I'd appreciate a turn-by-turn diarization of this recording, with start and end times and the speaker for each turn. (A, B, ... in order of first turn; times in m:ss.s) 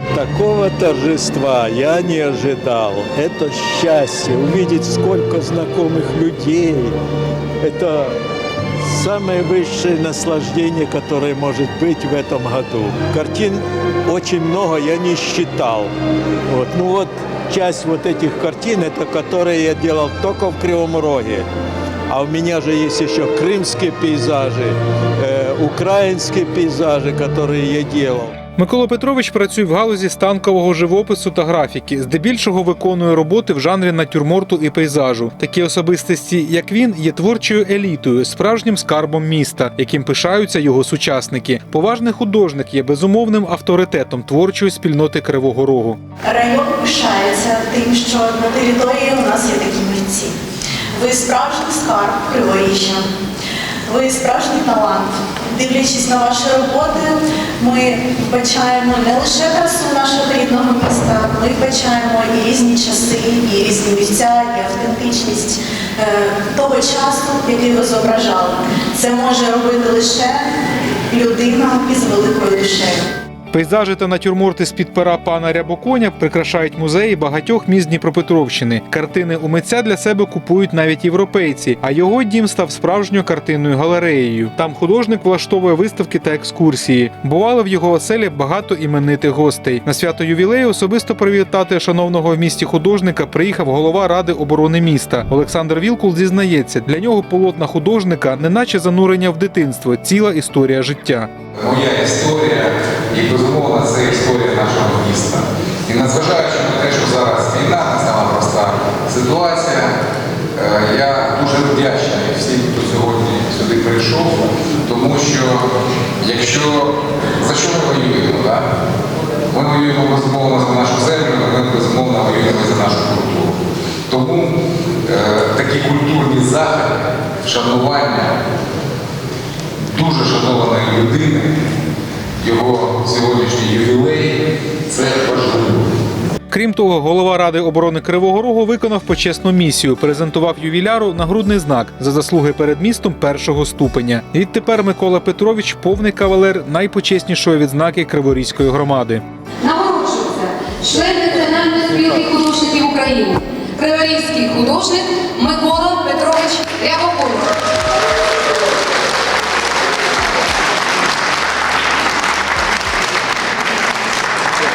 0:00.1-0:07.0 A
0:07.6-0:08.2 A
0:08.8-0:15.9 A
0:16.5-0:21.5 A
0:22.1-0:28.3 A
0:28.6-0:46.0 B
0:46.3-0:50.3 C
0:51.0-0:53.1 C
0:53.9-1:10.5 C
1:11.1-1:13.0 C
1:13.5-1:41.3 B
1:41.6-1:50.0 D
1:50.6-1:55.7 D
1:56.2-1:58.7 D
1:59.5-2:08.3 D
2:09.9-2:11.5 D
2:12.4-2:15.8 D
2:16.5-2:29.2 B
2:29.6-2:37.5 E